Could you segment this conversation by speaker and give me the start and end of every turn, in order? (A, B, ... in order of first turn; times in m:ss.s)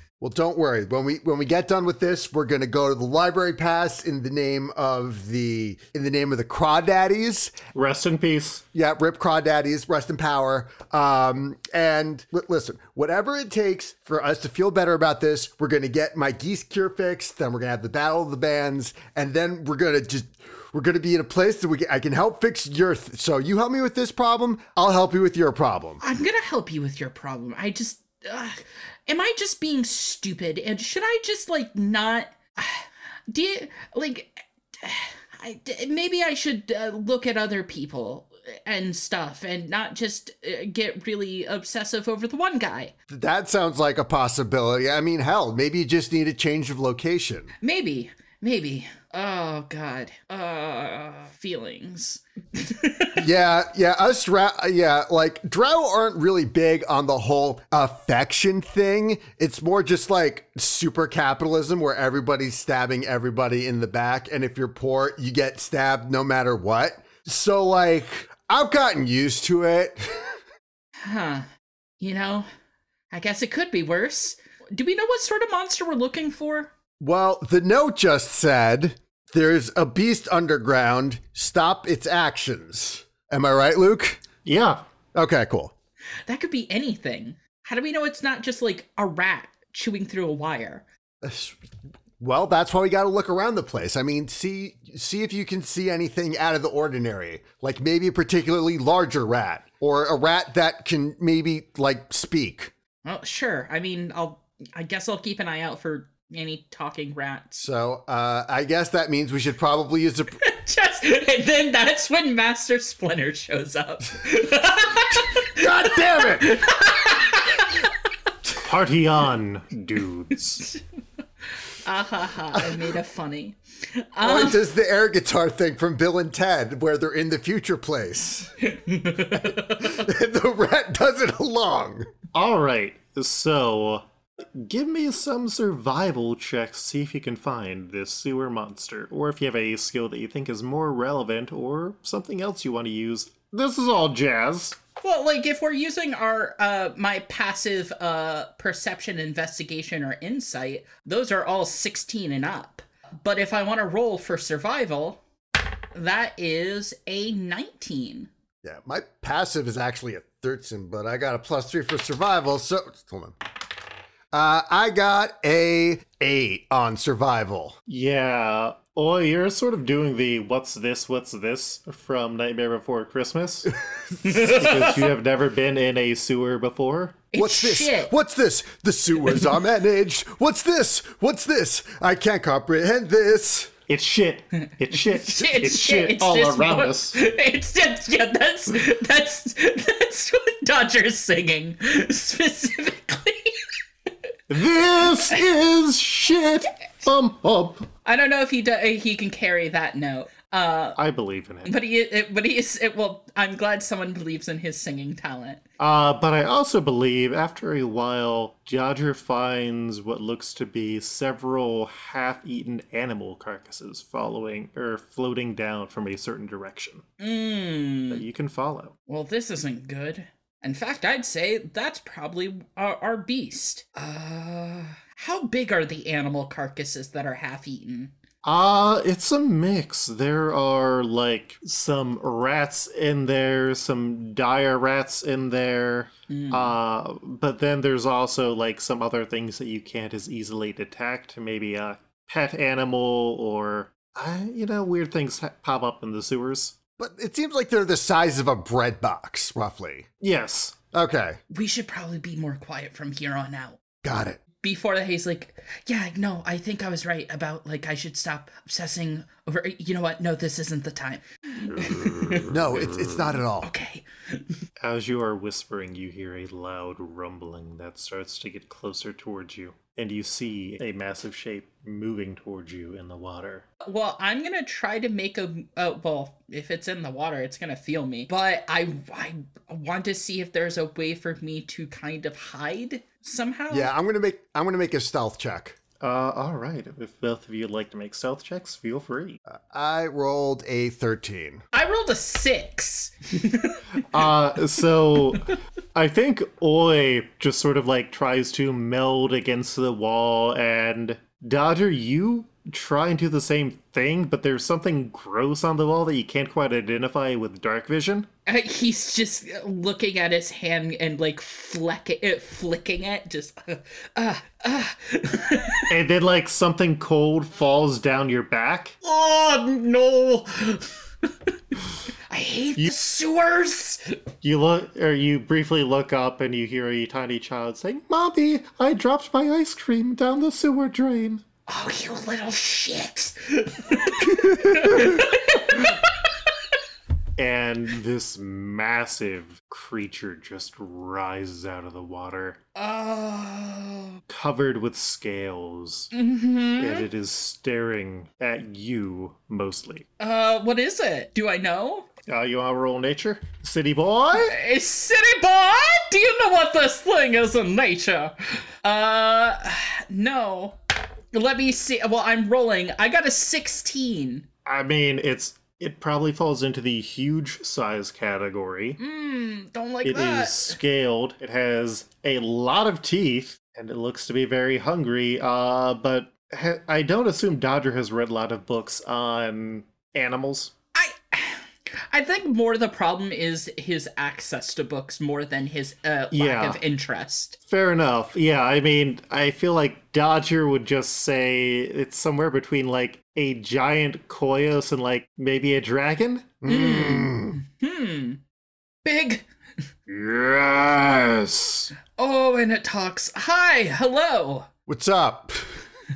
0:00.2-0:07.6 A
0:07.7-0:08.6 B
0:08.7-0:26.0 A
0:26.0-0:42.9 C
0:43.1-0:47.5 A
0:47.6-0:53.2 C
0:53.2-1:10.4 A
1:11.0-1:11.5 C
1:12.0-1:12.5 C
1:13.1-1:16.7 C
1:17.0-1:24.2 A
1:24.4-1:24.8 B
1:25.2-1:25.7 A
1:26.3-1:30.8 C
1:31.2-1:31.6 A
1:32.2-1:42.7 A
1:43.0-1:47.6 C
1:47.6-1:50.4 A
1:50.4-1:57.9 C
1:55.5-1:56.7 A
1:58.6-2:00.7 B
2:01.8-2:04.6 C
2:02.5-2:02.9 A
2:04.2-2:08.5 A
2:08.7-2:09.9 C
2:09.3-2:12.1 A
2:12.3-2:24.8 B
2:25.0-2:35.2 C
2:35.9-2:38.3 C
2:38.6-2:43.4 A
2:44.3-2:47.8 A
2:47.9-2:57.2 B
2:54.2-2:55.0 C
2:57.3-2:58.1 C
2:57.4-3:03.7 A
3:03.9-3:07.2 B
3:05.0-3:13.7 C
3:14.5-3:17.9 B
3:18.0-3:21.0 C
3:21.0-3:21.7 B
3:21.7-3:25.6 C
3:25.8-3:37.0 B
3:37.2-3:38.2 C
3:38.1-3:38.9 B
3:39.1-3:48.1 C
3:48.4-4:06.8 B
3:56.3-3:56.8 C
4:07.0-4:10.1 A
4:10.2-4:10.8 B
4:10.9-4:11.4 A
4:11.5-4:13.8 C
4:14.0-4:14.4 A
4:14.6-4:22.4 C
4:21.7-4:23.3 B
4:22.5-4:23.7 A
4:23.6-4:24.4 C
4:24.8-4:33.6 B
4:33.8-4:43.9 C
4:43.7-4:45.8 A
4:46.0-4:49.4 B
4:49.5-4:51.6 A
4:51.7-4:53.8 C
4:54.1-5:08.3 B
5:08.5-5:15.9 C
5:15.9-5:19.0 B
5:19.0-5:20.9 C
5:22.3-5:24.2 C
5:24.4-5:31.4 B
5:31.7-5:36.1 C
5:37.4-5:42.6 B
5:42.8-5:44.2 C
5:44.3-5:46.1 B
5:46.1-5:47.1 C
5:46.8-5:50.1 B
5:50.2-5:52.1 C
5:52.3-5:54.6 B
5:54.3-6:00.8 C
6:01.3-6:04.5 C
6:04.6-6:09.0 B
6:09.0-6:10.8 C
6:10.0-6:20.7 B
6:21.0-6:27.6 C
6:26.3-6:26.8 B
6:27.7-6:36.6 B
6:36.6-6:37.6 A
6:36.7-6:38.4 C
6:39.0-6:39.4 C
6:40.1-6:41.9 B
6:42.2-6:44.7 C
6:44.9-6:45.8 A